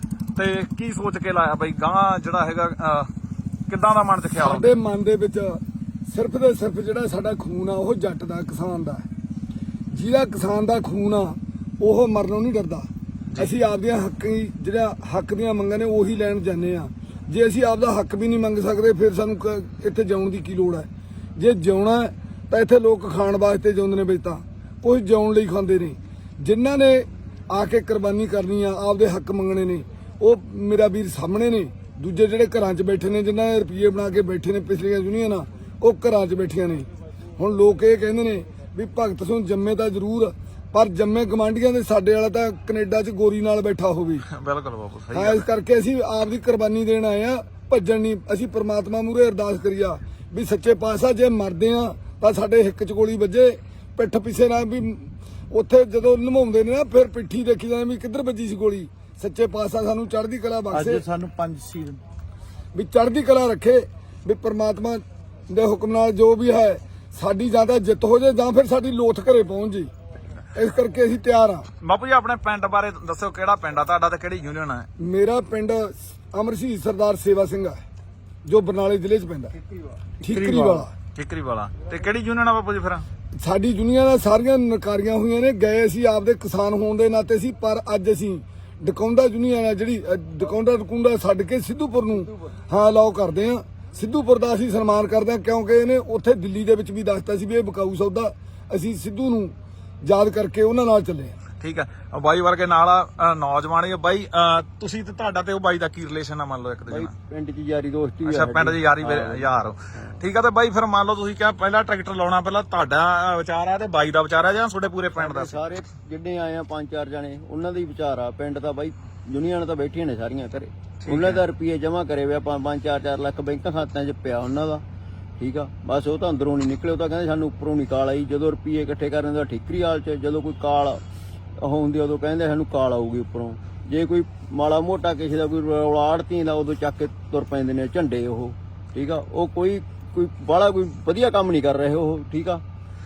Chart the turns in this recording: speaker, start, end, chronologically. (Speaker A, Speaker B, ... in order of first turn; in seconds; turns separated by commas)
Speaker A: 0.4-3.1, Speaker A: 3.7-4.8, Speaker B: 4.4-9.1, Speaker B: 9.9-36.9, Speaker B: 37.4-44.2, Speaker A: 44.3-45.5, Speaker B: 45.1-61.0, Speaker C: 60.7-62.0, Speaker B: 62.7-69.9, Speaker B: 70.5-71.7, Speaker A: 71.8-74.9, Speaker B: 75.0-77.8, Speaker B: 78.5-79.5, Speaker B: 80.2-80.9, Speaker A: 80.3-83.0, Speaker B: 83.4-99.5, Speaker B: 100.0-101.3, Speaker A: 101.6-107.1, Speaker C: 106.9-110.2, Speaker A: 108.3-115.6, Speaker C: 115.2-124.8, Speaker A: 121.0-121.4, Speaker C: 125.4-131.0, Speaker C: 131.6-142.6